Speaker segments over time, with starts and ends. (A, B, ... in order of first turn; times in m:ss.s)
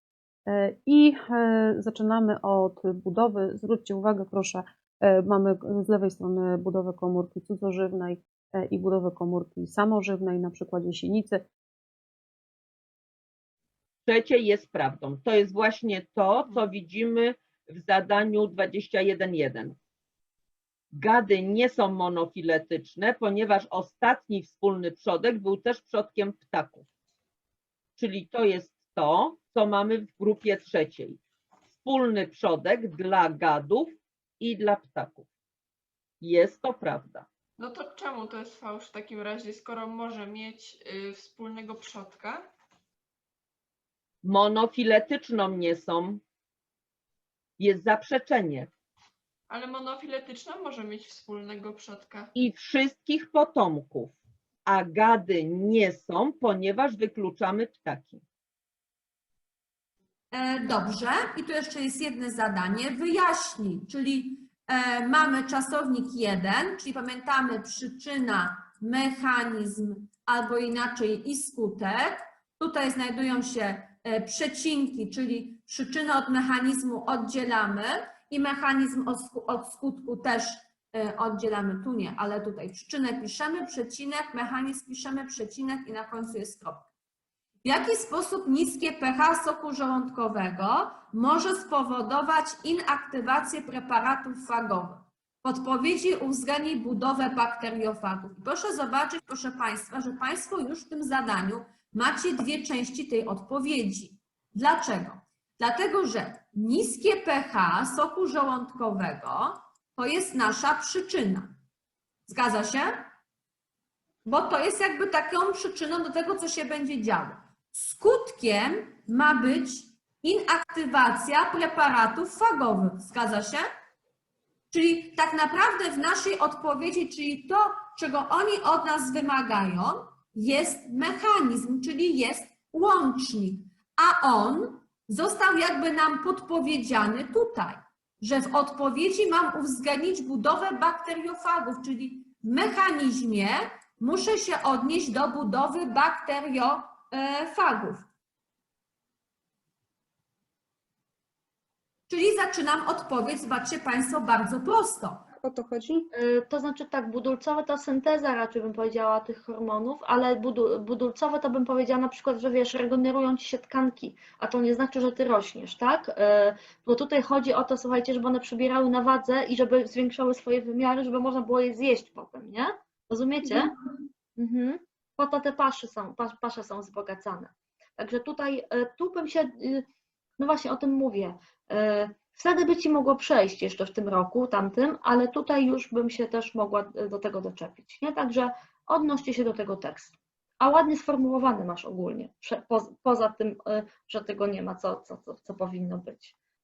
0:00.5-0:11.4 A
0:14.1-0:19.8 B
0:20.9-0:26.9 B
0:28.0-0:31.2 B
0:31.8-0:35.3 B
0:36.2-0:37.3 B
0:37.6-0:42.4 C
0:44.2-0:46.2 B
0:47.6-0:48.7 B
0:49.5-0:52.3 C
0:52.4-0:58.2 B
1:00.3-1:11.9 D
1:12.6-1:26.7 D
1:27.6-1:34.9 D
1:35.4-1:49.4 D
1:50.0-1:51.4 D
1:52.3-1:52.9 D
1:54.3-2:03.6 D
2:04.7-2:28.0 D
2:32.1-2:35.2 D
2:35.4-2:59.9 E
3:00.4-3:16.3 E